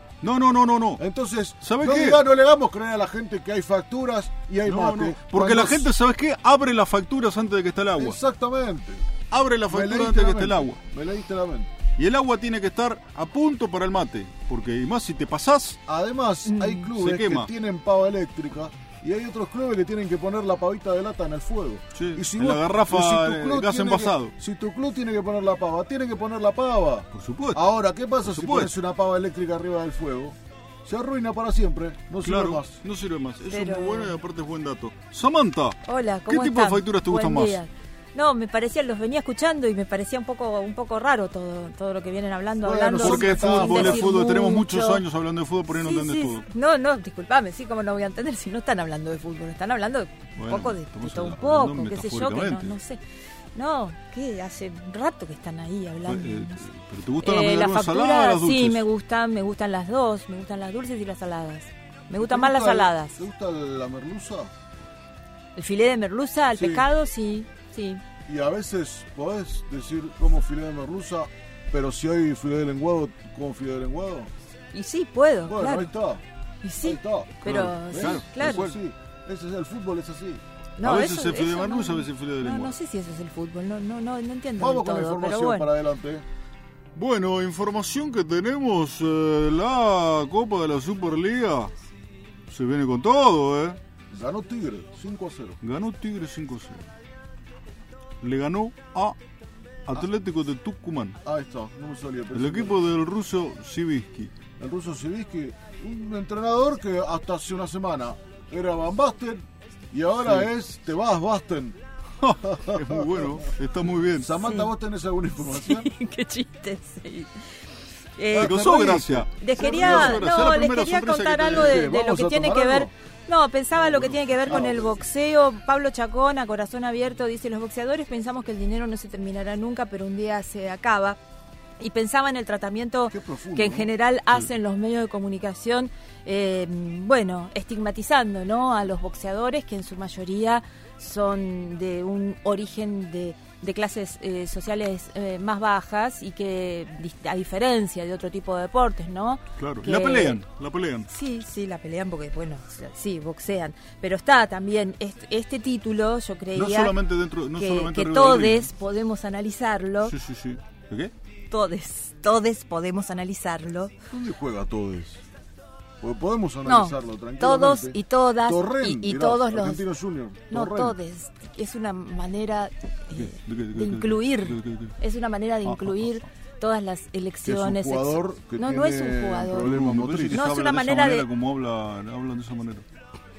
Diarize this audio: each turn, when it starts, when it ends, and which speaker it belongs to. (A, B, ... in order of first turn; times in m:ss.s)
0:00.2-0:01.0 A
0:01.0-0:05.9 B
0:01.6-0:02.2 A
0:04.6-0:08.2 A
0:08.0-0:09.1 B
0:09.3-0:10.8 A
0:09.7-0:11.7 B
0:12.0-0:15.8 A
0:15.9-0:32.8 B
0:16.5-0:16.8 C
0:16.9-0:17.5 A
0:21.9-0:24.3 A
0:27.1-0:27.6 A
0:28.2-0:28.7 A
0:32.2-0:37.6 A
0:33.5-0:34.2 C
0:35.8-0:45.0 C
0:42.6-0:44.2 B
0:43.0-0:46.5 A
0:45.7-0:53.0 C
0:50.4-0:52.8 A
0:53.5-0:56.6 C
0:56.0-0:58.8 A
0:57.2-1:03.2 C
1:02.2-1:04.5 B
1:05.6-1:08.0 C
1:06.6-1:06.9 B
1:08.2-1:14.3 B
1:14.7-1:15.9 C
1:15.4-1:16.2 B
1:16.6-1:18.7 C
1:16.8-1:20.4 B
1:17.4-1:18.8 A
1:20.8-1:25.7 C
1:20.8-1:22.8 A
1:24.6-1:26.2 B
1:27.0-1:31.7 A
1:32.5-1:33.8 A
1:34.1-1:35.6 B
1:35.6-1:36.9 A
1:38.2-1:39.2 A
1:39.9-1:41.2 A
1:41.2-1:42.8 B
1:42.3-1:44.3 A
1:44.6-1:51.8 B
1:52.2-1:54.3 A
1:52.6-1:53.4 B
1:54.2-1:55.9 B
1:54.4-1:54.7 C
1:55.4-1:57.3 C
1:58.2-2:11.2 C
1:58.3-2:00.2 B
1:58.4-2:01.9 A
2:01.4-2:02.9 B
2:03.8-2:05.0 B
2:11.8-2:30.4 C
2:13.1-2:13.9 B
2:29.6-2:31.1 A
2:31.1-2:37.0 C
2:36.5-2:38.7 A
2:37.6-2:40.1 C
2:40.0-2:41.1 A
2:41.5-2:43.9 C
2:44.1-2:45.2 B
2:46.0-2:51.0 B
2:46.7-2:49.8 C
2:50.5-2:59.7 C
2:53.1-2:55.0 A
2:55.6-2:56.2 A
2:57.4-3:00.5 B
2:59.6-3:02.8 A
3:00.3-3:01.3 C